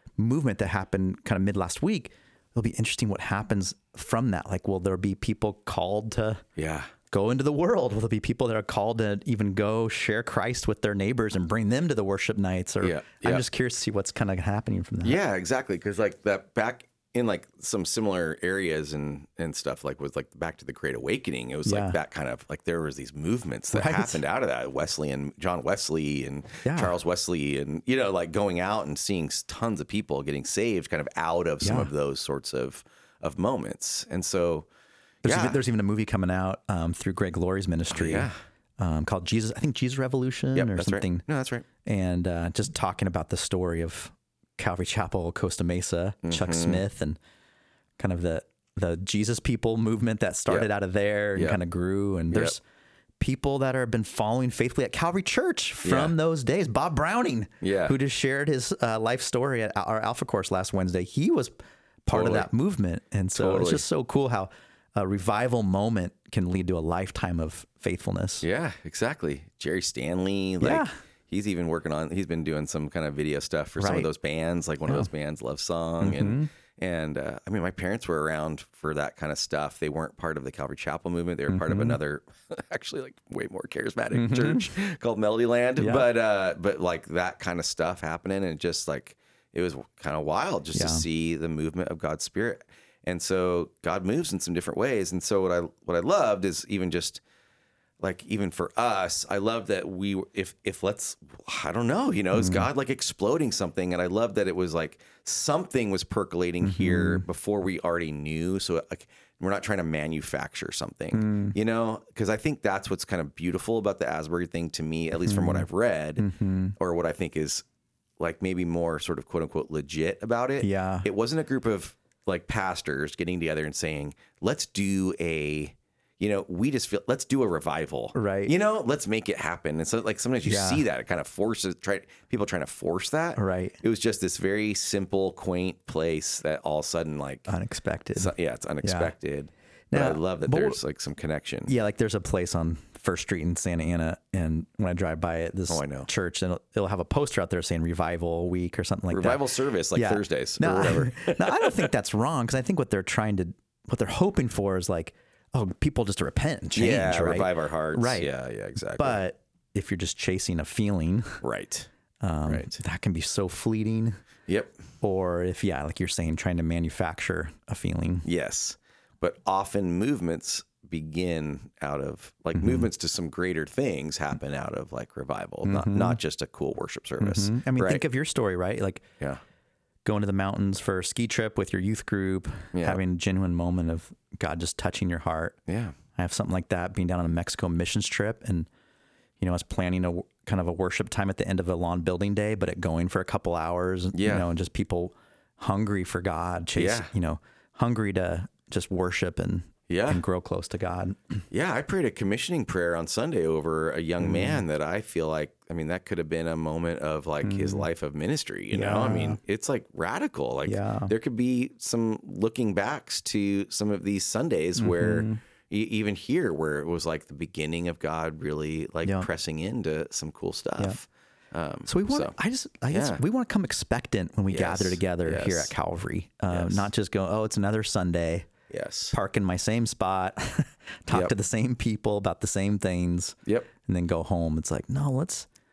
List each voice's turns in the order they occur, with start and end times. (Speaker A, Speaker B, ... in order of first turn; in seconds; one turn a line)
Speaker A: 0.2-6.4
Speaker B: 6.6-6.9
Speaker A: 7.1-15.2
Speaker B: 12.8-13.4
Speaker B: 15.0-34.7
Speaker A: 21.6-22.0
Speaker A: 23.7-24.2
Speaker A: 26.6-26.9
Speaker A: 31.6-31.9
Speaker A: 35.2-41.2
Speaker B: 35.2-35.6
Speaker B: 37.9-38.3
Speaker B: 40.5-41.7
Speaker A: 41.8-47.2
Speaker B: 46.2-46.8
Speaker A: 48.0-52.6
Speaker B: 51.4-51.6
Speaker A: 53.2-61.5
Speaker B: 55.8-56.2
Speaker B: 57.6-58.0
Speaker A: 62.0-68.5
Speaker B: 62.1-62.5
Speaker B: 63.3-63.9
Speaker B: 68.4-97.2
Speaker A: 70.6-70.9
Speaker A: 73.8-74.1
Speaker A: 76.0-76.5
Speaker A: 81.5-82.0
Speaker A: 84.1-84.7
Speaker A: 85.8-86.1
Speaker A: 90.7-91.0
Speaker B: 98.0-116.2
Speaker A: 102.4-102.7
Speaker A: 106.6-107.2
Speaker A: 111.1-111.5
Speaker A: 115.2-115.7
Speaker A: 116.2-116.8
Speaker B: 116.8-117.7
Speaker B: 118.2-137.5
Speaker A: 120.6-121.1
Speaker A: 128.2-128.5
Speaker A: 130.4-130.8
Speaker A: 133.4-133.8
Speaker A: 137.5-139.1
Speaker B: 138.2-141.7
Speaker A: 139.9-140.8
Speaker A: 141.7-158.3
Speaker B: 145.7-146.1
Speaker B: 149.1-151.9
Speaker B: 156.7-159.2
Speaker A: 159.0-161.4
Speaker B: 161.4-161.9
Speaker A: 162.2-164.2
Speaker B: 162.5-162.8
Speaker B: 164.5-164.7
Speaker A: 165.0-168.3
Speaker B: 168.2-178.0
Speaker A: 172.6-172.9
Speaker A: 175.7-176.2
Speaker A: 177.2-179.1
Speaker A: 180.1-185.6
Speaker B: 182.7-183.0
Speaker B: 185.7-186.0
Speaker A: 186.2-188.7
Speaker A: 189.4-201.4
Speaker B: 194.1-194.5
Speaker B: 196.8-197.1
Speaker B: 199.9-200.2
Speaker B: 201.5-222.3
Speaker A: 204.2-204.6
Speaker A: 207.4-207.9
Speaker A: 208.7-209.4
Speaker A: 210.7-211.1
Speaker A: 214.8-215.4
Speaker A: 221.9-228.5
Speaker B: 222.9-223.2
Speaker B: 224.5-225.7
Speaker B: 226.5-226.9
Speaker B: 228.7-229.2
Speaker A: 229.1-235.5